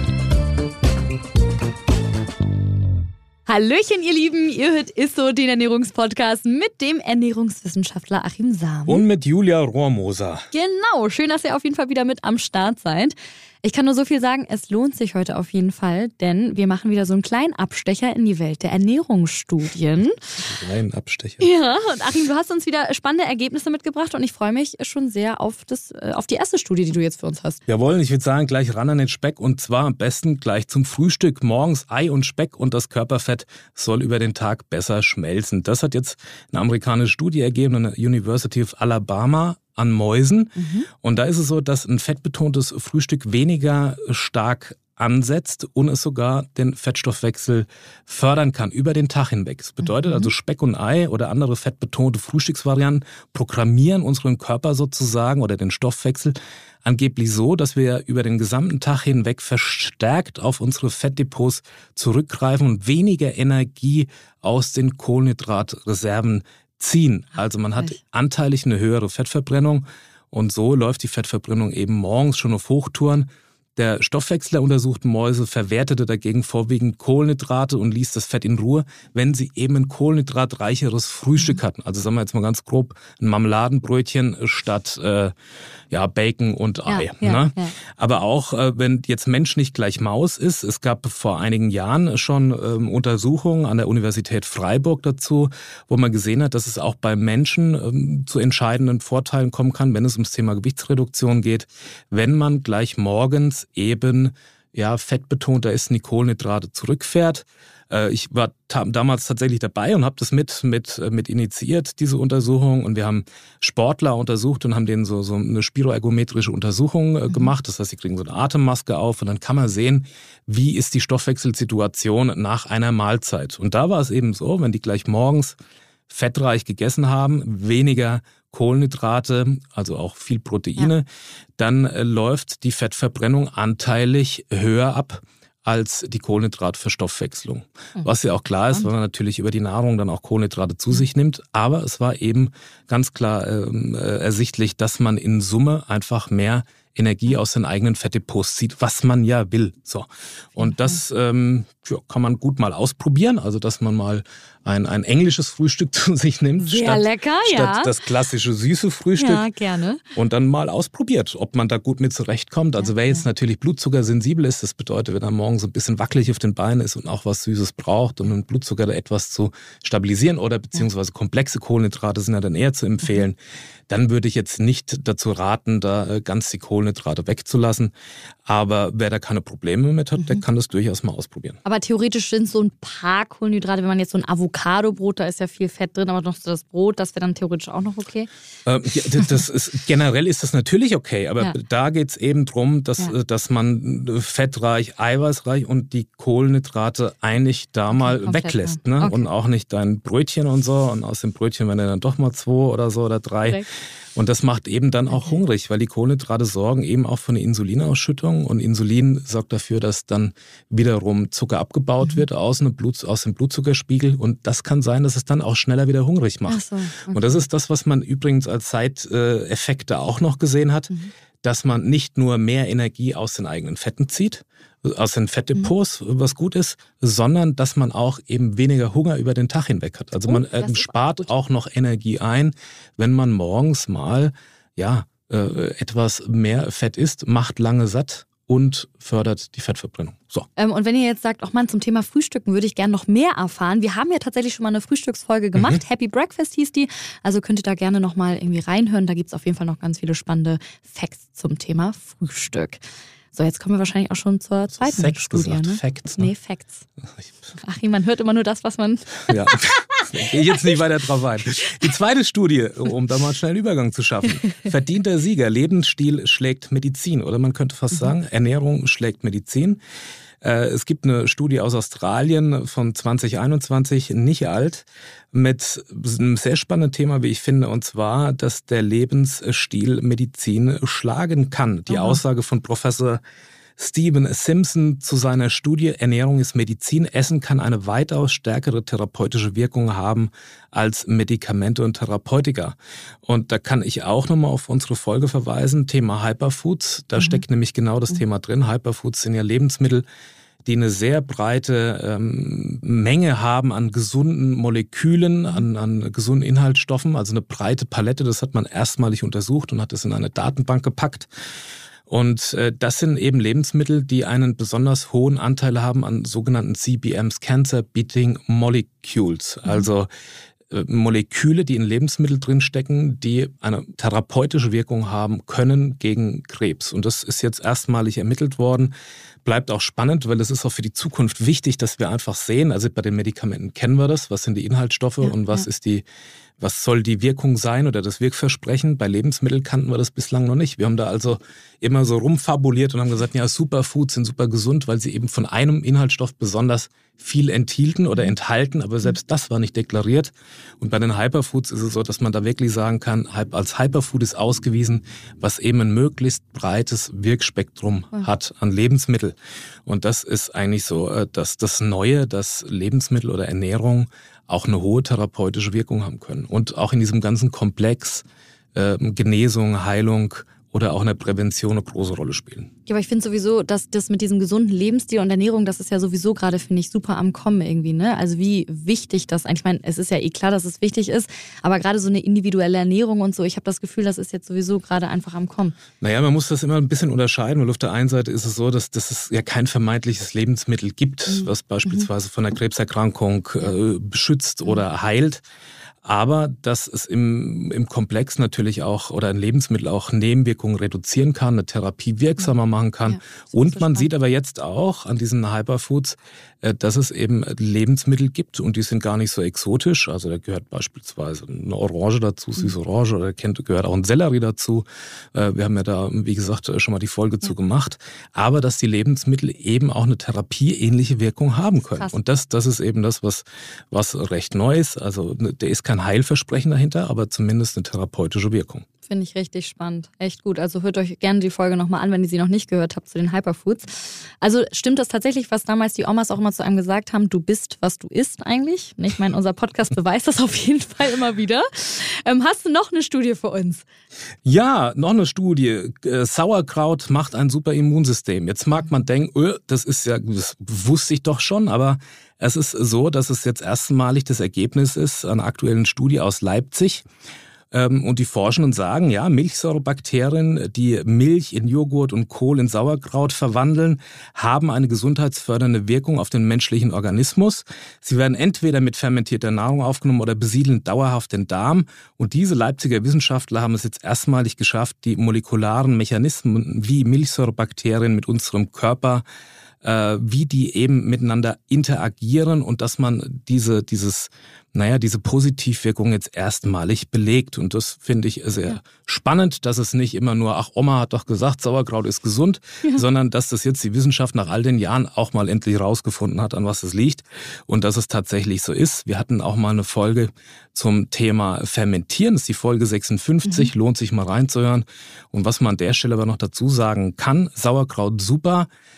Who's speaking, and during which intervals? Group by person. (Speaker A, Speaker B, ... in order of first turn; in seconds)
Speaker A: 3.5-9.0, 10.5-20.2, 21.4-27.6, 40.6-40.9, 86.9-87.7, 150.6-150.9, 156.6-157.9, 159.2-160.0, 181.6-188.3, 197.9-199.3, 216.5-217.4, 230.3-231.3, 240.6-252.8, 253.3-256.8, 257.6-260.0, 281.9-282.2, 335.2-335.6, 372.9-385.8, 391.3-392.1, 403.0-404.1, 429.0-443.8, 503.4-503.7
Speaker B: 8.9-10.4, 20.4-21.5, 27.7-85.3, 85.9-125.6, 126.1-131.1, 131.6-159.5, 160.1-173.4, 173.9-177.9, 178.4-181.6, 188.7-203.6, 204.2-220.9, 221.4-240.5, 254.8-256.3, 259.3-269.8, 270.4-283.2, 283.8-300.1, 300.6-311.3, 312.1-320.1, 320.7-328.9, 329.4-336.0, 336.6-368.2, 368.7-372.7, 386.0-395.4, 396.0-428.9, 444.4-457.0, 457.7-479.2, 479.8-508.7